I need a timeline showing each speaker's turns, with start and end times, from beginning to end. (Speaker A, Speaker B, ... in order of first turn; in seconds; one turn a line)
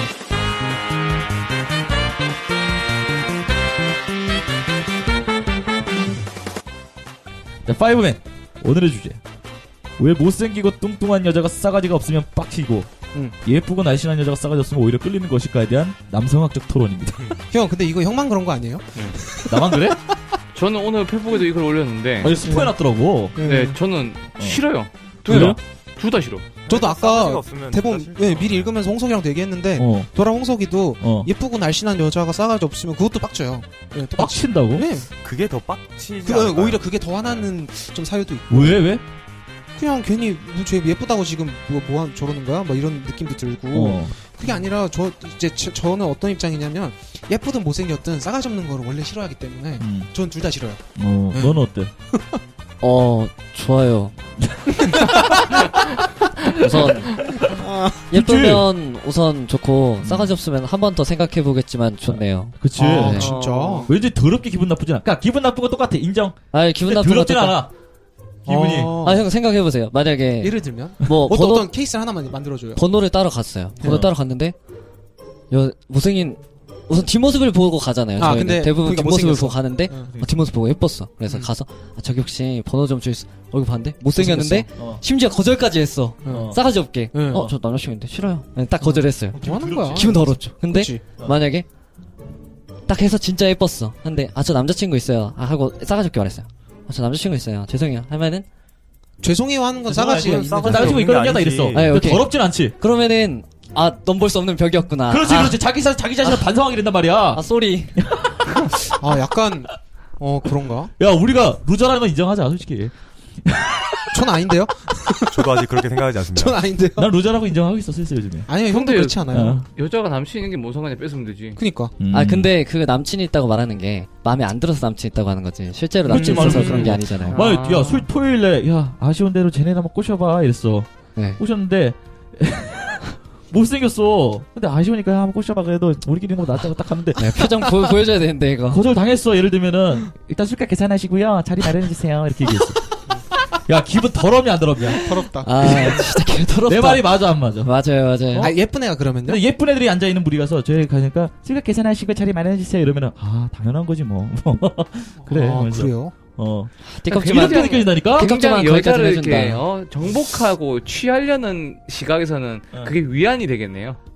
Speaker A: 7.7-9.2
Speaker A: 10.0-12.9
Speaker A: 13.4-17.3
Speaker B: 17.5-20.1
Speaker A: 19.5-20.0
Speaker C: 20.5-22.4
Speaker A: 22.2-23.4
Speaker B: 22.2-22.8
Speaker B: 23.4-23.8
Speaker C: 23.4-26.5
Speaker A: 25.3-25.6
Speaker B: 25.3-25.6
Speaker D: 26.6-28.8
Speaker B: 26.7-35.1
Speaker A: 29.8-30.1
Speaker A: 31.0-31.3
Speaker A: 34.2-34.9
Speaker D: 35.2-37.6
Speaker B: 36.2-38.8
Speaker A: 38.5-39.0
Speaker B: 39.8-50.8
Speaker A: 43.7-44.1
Speaker A: 49.8-50.1
Speaker A: 51.0-51.9
Speaker B: 51.3-52.4
Speaker E: 52.8-54.1
Speaker A: 54.4-55.2
Speaker B: 54.8-55.8
Speaker E: 56.5-57.1
Speaker B: 57.3-58.1
Speaker E: 58.1-63.3
Speaker A: 58.1-58.7
Speaker A: 60.0-60.4
Speaker A: 62.1-67.7
Speaker B: 62.8-63.9
Speaker C: 63.2-63.9
Speaker E: 66.5-67.6
Speaker A: 68.4-69.0
Speaker B: 68.5-69.2
Speaker E: 69.0-71.7
Speaker B: 70.4-72.9
Speaker E: 72.8-74.5
Speaker B: 73.8-74.1
Speaker E: 75.5-89.4
Speaker B: 78.2-80.2
Speaker B: 84.1-84.7
Speaker A: 84.8-85.0
Speaker B: 86.2-86.5
Speaker A: 86.3-86.6
Speaker B: 87.1-87.5
Speaker A: 87.3-87.5
Speaker B: 88.8-91.0
Speaker A: 89.3-90.3
Speaker E: 89.9-91.7
Speaker E: 92.9-98.5
Speaker B: 99.2-101.0
Speaker D: 99.9-102.0
Speaker A: 99.9-102.8
Speaker E: 101.7-105.6
Speaker A: 105.1-107.5
Speaker E: 106.2-106.5
Speaker E: 107.3-108.0
Speaker A: 108.0-109.0
Speaker B: 109.0-110.9
Speaker A: 111.0-112.9
Speaker A: 113.5-114.1
Speaker B: 114.1-115.7
Speaker D: 115.3-116.7
Speaker B: 116.4-117.1
Speaker A: 117.0-118.5
Speaker B: 118.5-119.6
Speaker C: 118.7-121.6
Speaker A: 119.3-119.7
Speaker B: 121.6-122.0
Speaker A: 122.0-122.5
Speaker E: 122.1-127.5
Speaker A: 126.0-137.3
Speaker B: 126.1-127.0
Speaker C: 127.3-128.1
Speaker E: 131.2-131.4
Speaker E: 137.2-138.8
Speaker A: 138.7-142.8
Speaker A: 143.6-146.0
Speaker B: 144.8-146.1
Speaker E: 145.4-148.5
Speaker A: 146.7-147.7
Speaker B: 148.4-149.4
Speaker A: 149.2-158.3
Speaker B: 155.3-156.2
Speaker C: 155.3-155.7
Speaker E: 156.9-159.7
Speaker C: 157.1-164.0